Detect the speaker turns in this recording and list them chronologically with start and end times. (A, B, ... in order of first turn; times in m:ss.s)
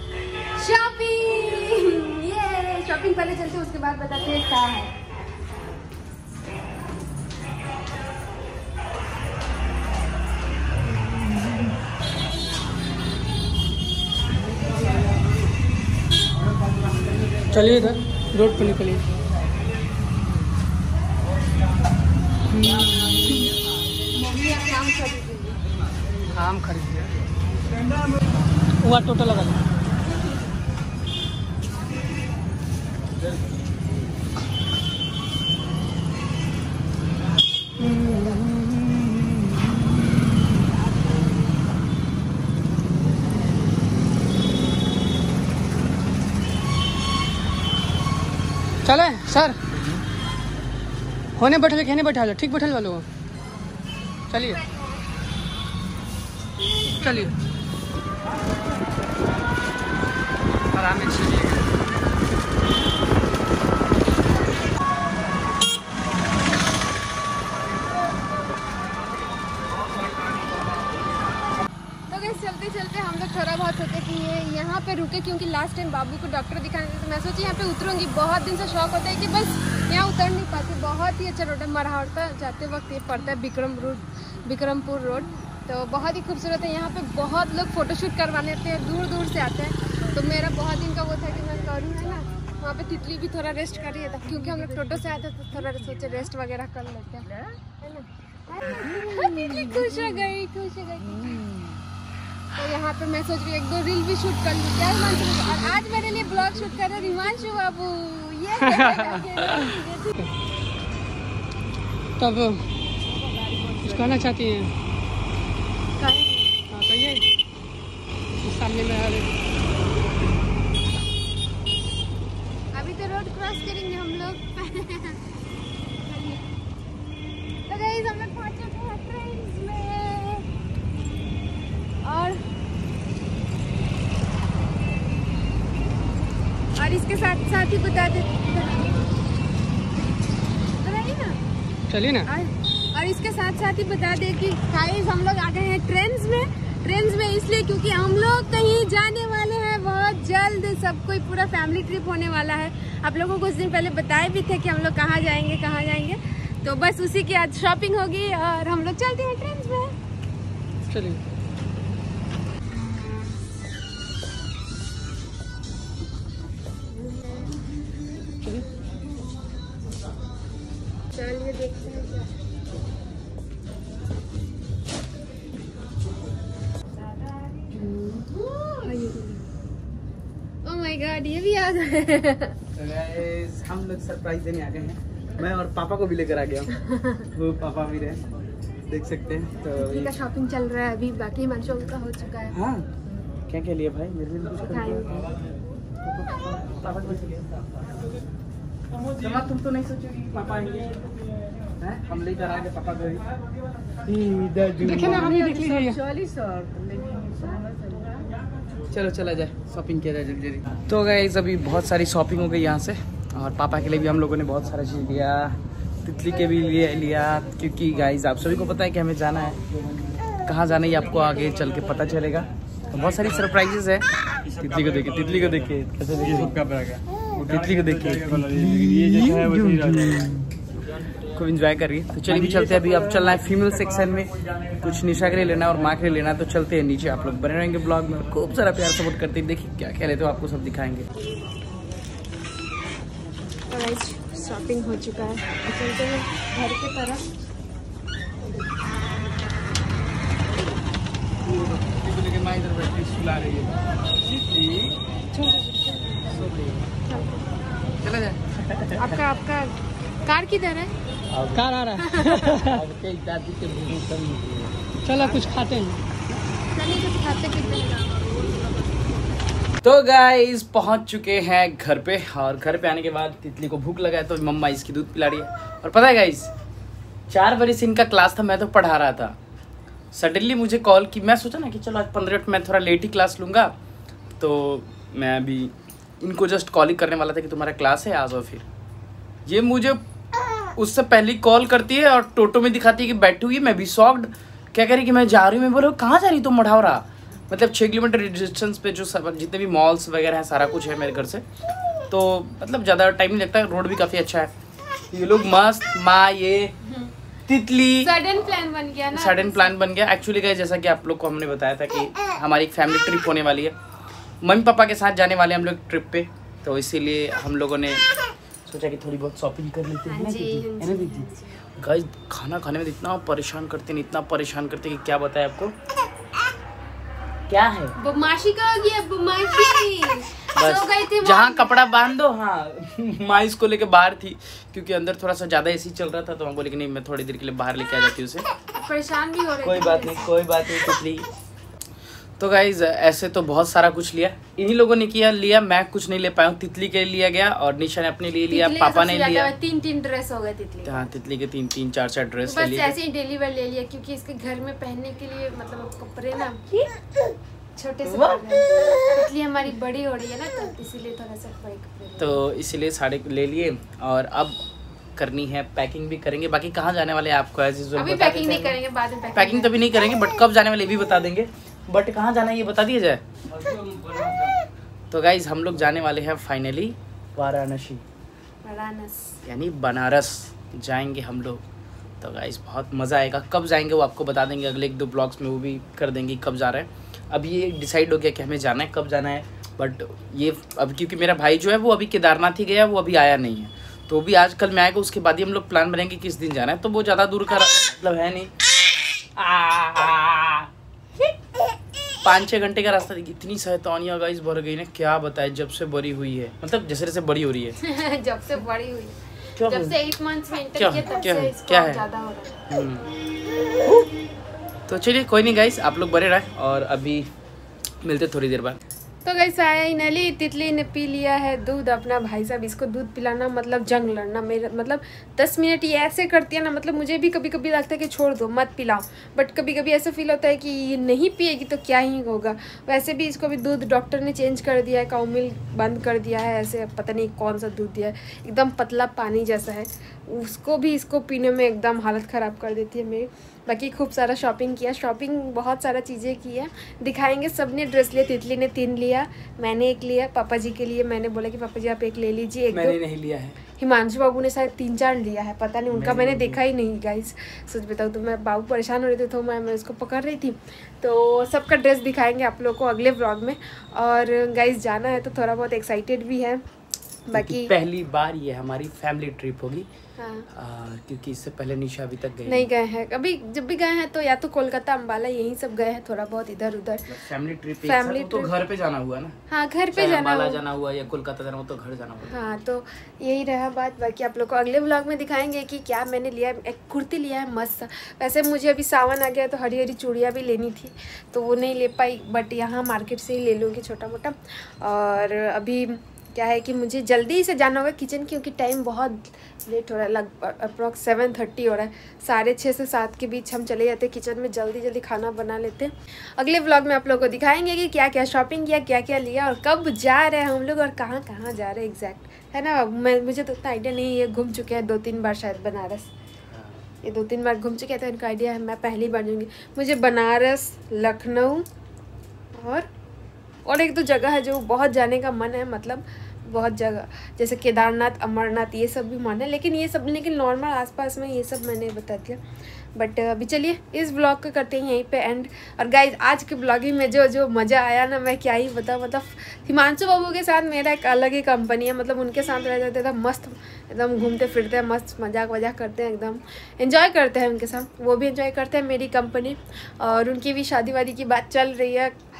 0:00.5-0:05.0 A
0:17.5-0:19.0 B
0:22.5-0:23.4 B
0:24.2-0:25.6 A
0:26.3-0:27.1 B
0:28.8-0:29.6 B
0:37.9-0:38.5 B
0:48.8-0:49.8 B
0:51.4-0:53.1 B
0:54.3-0:54.6 B
0:54.6-0:54.9 A
0:56.9-0:57.3 B
1:00.7-1:01.6 B
1:12.1-1:41.5 A
1:42.5-1:50.3 A
1:48.8-1:49.4 B
1:52.2-1:52.6 B
1:53.2-1:54.2 A
1:53.8-1:54.7 B
1:56.0-1:56.5 A
1:56.7-1:57.2 B
1:58.4-1:59.3 B
2:02.7-2:05.2 A
2:06.1-2:06.5 A
2:07.7-2:10.5 A
2:12.0-2:12.4 A
2:16.8-2:19.1 A
2:20.8-2:21.4 A
2:21.9-2:22.3 B
2:22.2-2:39.9 A
2:40.9-2:41.2 B
2:47.0-2:47.5 A
2:51.1-2:52.3 A
2:57.7-2:59.5 A
3:00.6-3:02.6 A
3:02.8-3:06.7 C
3:06.7-3:07.3 A
3:07.3-3:08.2 C
3:08.9-3:10.2 C
3:09.8-3:12.6 A
3:12.5-3:12.9 C
3:13.5-3:15.3 C
3:14.7-3:15.3 A
3:16.1-3:17.8 C
3:19.2-3:21.0 C
3:21.8-3:23.2 C
3:24.1-3:27.5 C
3:24.8-3:26.0 B
3:27.7-3:28.1 A
3:28.9-3:39.6 C
3:40.4-3:44.0 C
3:44.6-3:46.7 C
3:47.3-3:50.5 C
3:51.3-4:01.1 C
4:03.7-4:07.3 A
4:11.6-4:13.7 C
4:14.4-4:14.9 C
4:15.3-4:16.2 A
4:16.3-4:16.8 C
4:17.0-4:17.6 A
4:18.0-4:19.2 C
4:19.0-4:20.9 A
4:21.3-4:21.8 C
4:21.5-4:22.8 B
4:22.0-4:22.6 A
4:22.6-4:24.8 C
4:25.0-4:26.0 B
4:26.7-4:29.1 A
4:29.8-4:36.5 C
4:37.3-4:39.4 C
4:40.1-4:43.7 C
4:44.4-4:48.7 C
4:49.5-4:50.0 C
4:50.8-5:01.4 C
5:02.1-5:04.5 C
5:05.1-5:06.7 C
5:06.8-5:07.1 A
5:07.5-5:08.1 C
5:08.0-5:09.7 A
5:09.1-5:13.8 C
5:14.4-5:18.0 C
5:18.7-5:25.8 C
5:20.1-5:21.6 A
5:27.5-5:28.0 C
5:28.0-5:31.8 A
5:30.6-5:38.5 C
5:38.7-5:40.4 A
5:39.6-5:41.3 C
5:42.4-5:49.5 C
5:48.5-5:51.1 A
5:50.8-5:53.0 C
5:52.4-5:56.9 A
5:57.8-6:02.4 A
5:58.0-5:59.0 C
6:02.2-6:04.6 C
6:05.2-6:08.8 C
6:08.0-6:09.8 A
6:09.4-6:14.5 C
6:15.1-6:18.0 C
6:18.6-6:19.4 A
6:19.4-6:21.6 C
6:22.2-6:38.5 C
6:39.4-6:40.7 C
6:42.2-6:47.8 C
6:47.8-6:52.7 A
6:49.6-6:50.0 C
6:50.8-6:52.0 C
6:52.7-6:53.1 C
6:54.9-6:57.3 C
6:58.0-6:58.8 C
6:59.2-7:33.0 A
7:32.7-7:33.6 C
7:33.8-7:46.6 A
7:35.9-7:36.6 C
7:47.3-7:47.7 A
7:47.3-7:49.9 C
7:50.2-7:50.5 A
7:50.5-7:52.7 C
7:52.5-7:57.1 A
7:57.1-7:59.4 C
7:57.8-7:58.6 A
7:59.5-8:00.6 A
7:59.9-8:02.4 C
8:02.3-8:36.1 A
8:36.5-8:36.8 C
8:37.0-8:41.7 A
8:42.6-8:42.9 A
8:43.6-8:52.4 A
8:53.0-9:12.2 A